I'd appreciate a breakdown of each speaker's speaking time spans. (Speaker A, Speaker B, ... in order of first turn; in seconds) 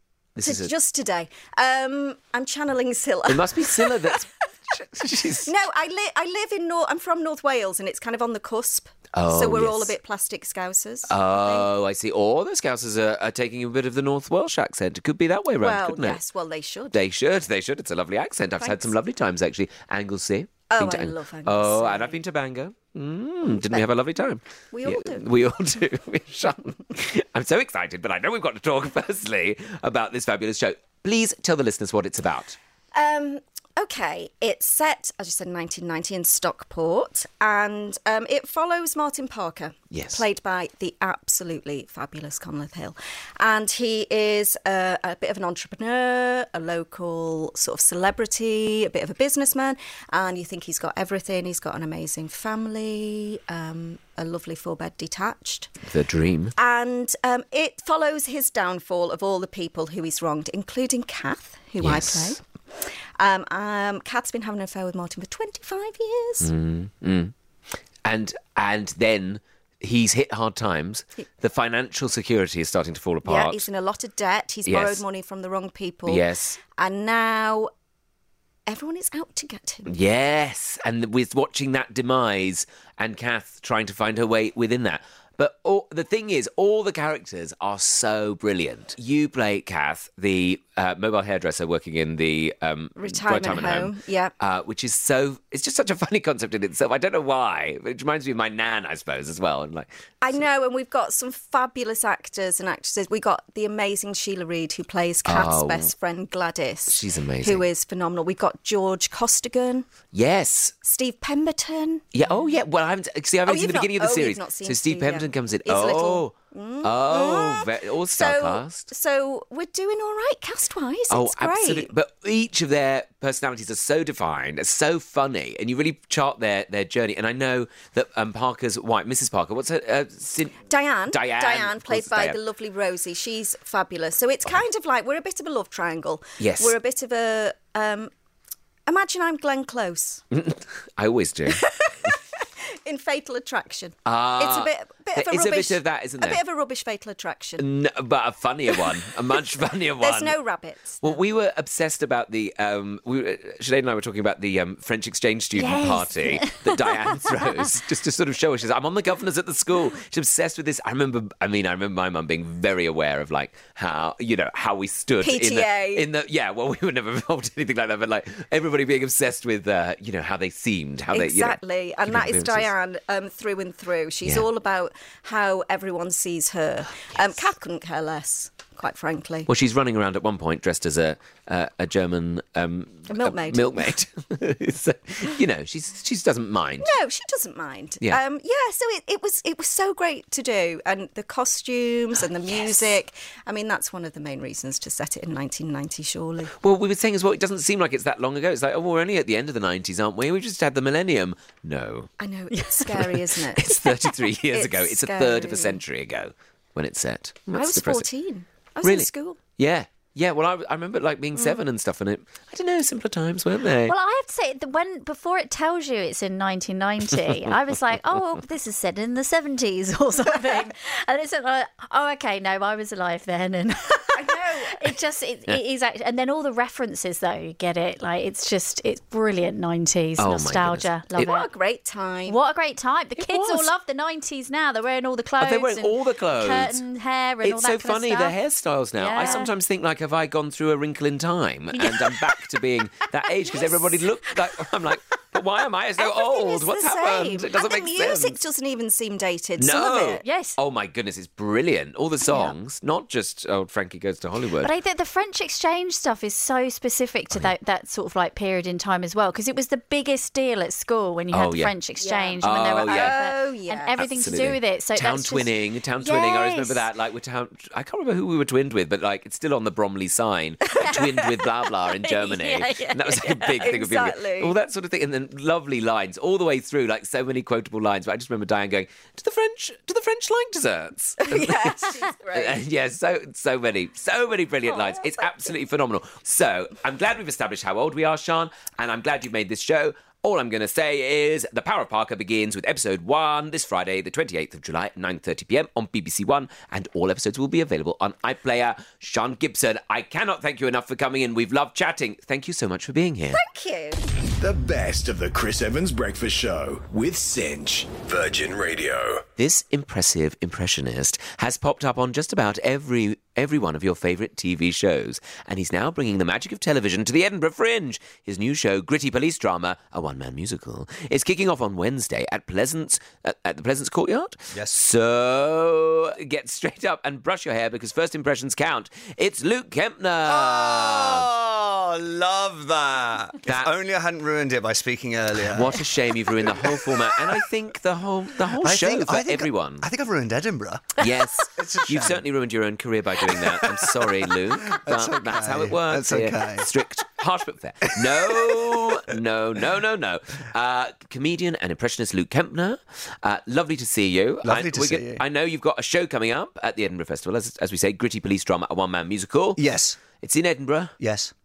Speaker A: 0.4-0.7, 3.3-5.5, 9.1-9.9, 11.1-16.2, 16.9-32.6, 39.9-40.2, 55.9-56.5, 61.8-62.4, 66.4-67.3, 68.0-73.7, 74.7-75.0, 76.1-76.6, 79.9-100.4, 105.2-105.9, 106.9-107.7, 110.1-110.8, 112.1-118.9, 121.1-132.4, 136.4-136.8, 140.3-141.6, 144.1-146.4, 147.6-150.4, 151.0-172.7, 179.5-186.9, 196.6-202.1, 202.9-208.1, 208.8-213.9, 230.2-231.3, 233.2-233.7, 235.4-236.8, 237.4-248.4, 249.6-254.7, 261.3-261.7, 262.4-263.2, 264.0-303.4, 309.4-331.3, 333.5-333.7, 335.5-339.9, 341.0-359.6, 360.2-360.9
Speaker B: 0.4-3.9, 5.5-11.7, 15.6-17.0, 18.6-18.9, 20.7-22.2, 23.5-23.8, 24.7-25.3, 32.9-55.7, 56.6-66.5, 73.2-77.7, 78.7-79.9, 93.0-94.3, 100.2-109.9, 110.8-112.0, 113.5-121.9, 130.7-138.1, 138.9-140.2, 141.5-147.6, 150.0-151.2, 165.2-166.1, 171.1-179.5, 183.1-183.9, 186.8-196.5, 202.2-205.8, 207.5-209.4, 224.2-224.9, 231.2-232.4, 239.2-239.5, 243.4-243.9, 246.0-250.2, 262.0-264.0, 270.8-271.3, 273.6-274.6, 281.2-282.6, 284.7-285.1, 303.3-304.0
Speaker C: 155.6-156.8, 213.8-231.5, 232.3-238.4, 238.9-239.5, 250.2-250.6, 254.6-266.9, 272.1-273.6
Speaker D: 304.4-309.3
Speaker E: 324.5-324.8, 330.3-337.3, 338.5-342.2, 343.2-346.7, 348.0-349.0, 354.4-355.2, 359.6-360.0, 361.0-361.3